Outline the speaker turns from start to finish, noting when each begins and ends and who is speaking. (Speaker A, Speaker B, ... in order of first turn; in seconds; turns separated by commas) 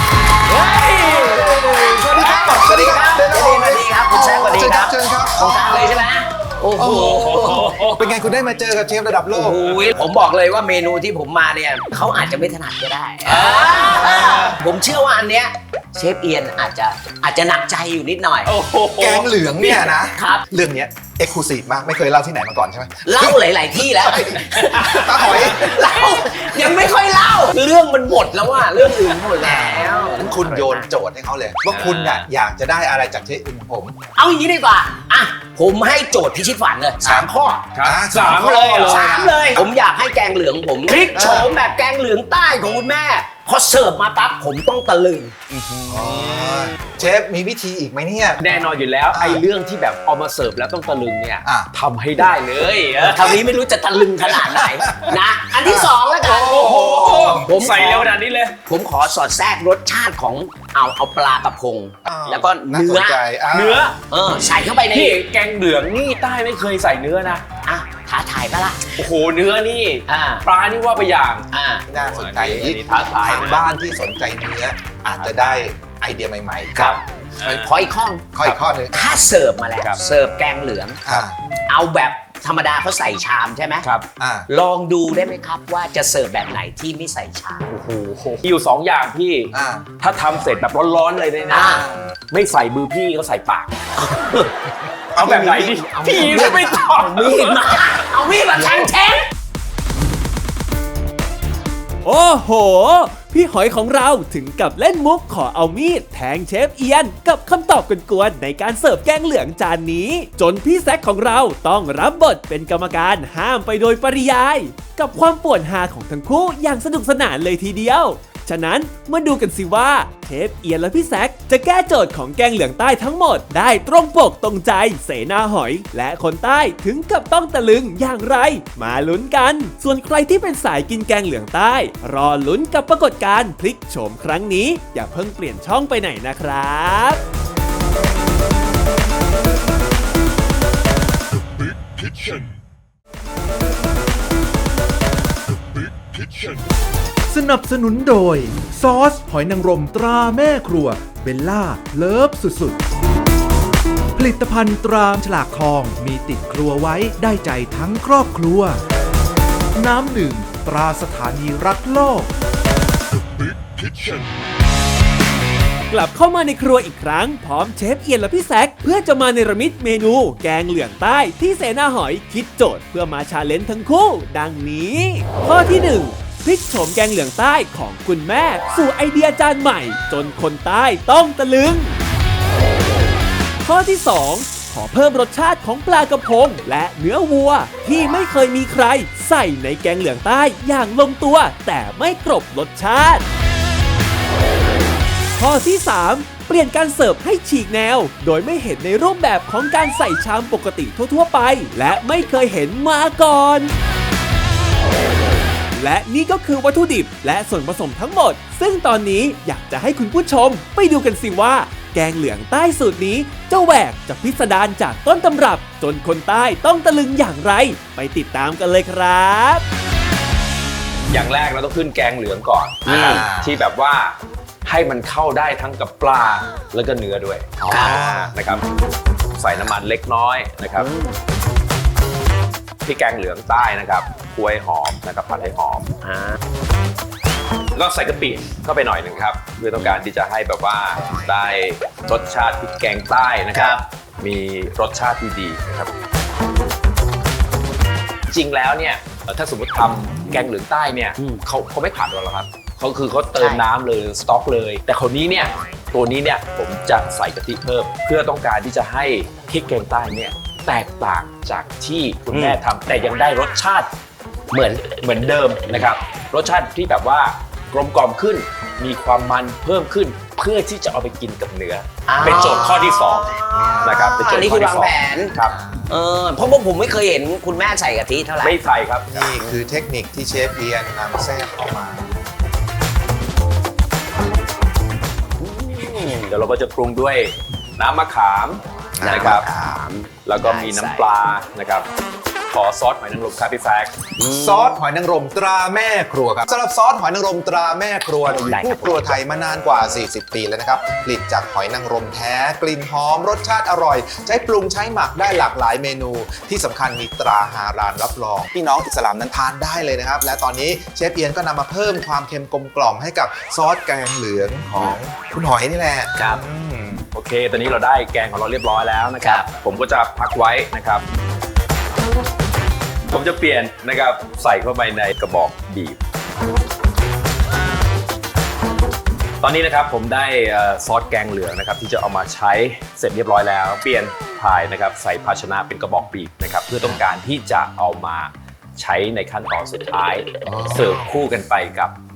Speaker A: 0.5-8.0, Speaker B: 0.5-1.7, Speaker C: 1.2-6.1, Speaker C: 6.8-7.2, Speaker B: 6.8-8.1, Speaker C: 7.9-9.6, Speaker A: 9.3-18.5, Speaker B: 9.6-10.0, Speaker B: 13.3-13.8, Speaker C: 13.7-14.6, Speaker B: 18.5-19.3, Speaker C: 19.0-25.8, Speaker A: 19.6-20.4, Speaker A: 23.1-30.9, Speaker C: 29.4-34.0, Speaker B: 31.7-32.3, Speaker A: 34.2-45.4, Speaker C: 37.0-37.3, Speaker B: 37.7-39.6, Speaker C: 37.8-39.6, Speaker C: 41.1-41.5, Speaker B: 45.5-47.0, Speaker C: 45.9-48.4, Speaker B: 48.4-53.5, Speaker C: 49.1-49.4, Speaker C: 51.4-51.7, Speaker A: 53.0-58.1, Speaker C: 54.6-57.5, Speaker B: 56.2-58.6, Speaker A: 58.7-63.2, Speaker C: 62.0-63.8, Speaker B: 63.5-64.0, Speaker A: 63.9-65.2, Speaker B: 64.9-67.5, Speaker A: 67.7-69.0, Speaker B: 69.0-73.7, Speaker A: 70.1-70.5, Speaker A: 71.5-71.9, Speaker C: 71.9-77.7, Speaker B: 75.2-75.7, Speaker B: 76.8-77.7, Speaker A: 77.5-78.3, Speaker C: 78.3-79.1, Speaker A: 78.9-81.0, Speaker C: 81.1-81.4, Speaker A: 81.7-83.8, Speaker C: 84.2-84.5, Speaker A: 84.5-87.7, Speaker B: 87.7-94.4, Speaker C: 89.5-89.9, Speaker A: 91.5-91.8, Speaker C: 91.5-92.1, Speaker A: 94.2-94.5, Speaker C: 95.2-96.8, Speaker B: 95.2-98.1, Speaker A: 95.2-99.2, Speaker D: 102.0-137.2, Speaker E: 147.3-152.8, Speaker E: 154.2-158.8, Speaker E: 159.8-162.3, Speaker D: 165.9-181.9, Speaker D: 183.6-193.2, Speaker D: 195.3-203.7, Speaker D: 205.7-219.6, Speaker B: 221.1-228.6, Speaker A: 222.9-223.2, Speaker C: 222.9-223.6, Speaker C: 227.6-228.4, Speaker A: 227.7-228.0, Speaker B: 229.3-230.9, Speaker A: 230.8-231.2, Speaker B: 232.8-235.9, Speaker A: 236.0-236.4, Speaker B: 237.8-245.9, Speaker A: 243.6-243.8, Speaker B: 248.3-263.9, Speaker A: 253.4-253.6, Speaker A: 262.3-262.6, Speaker A: 264.5-264.9, Speaker B: 264.9-275.6, Speaker A: 272.1-275.3, Speaker C: 272.2-272.7, Speaker C: 273.5-274.1, Speaker C: 275.5-276.0, Speaker A: 275.9-278.6, Speaker B: 278.4-279.3, Speaker C: 279.1-282.2, Speaker A: 285.4-286.4, Speaker B: 286.3-289.5, Speaker C: 289.0-289.8, Speaker A: 289.0-291.1, Speaker B: 290.3-291.9, Speaker B: 292.5-294.1, Speaker A: 294.2-294.8, Speaker C: 294.2-317.1, Speaker A: 298.4-299.0, Speaker A: 316.2-316.4, Speaker B: 317.1-321.0, Speaker B: 323.1-326.0, Speaker B: 329.4-341.9, Speaker C: 340.4-341.1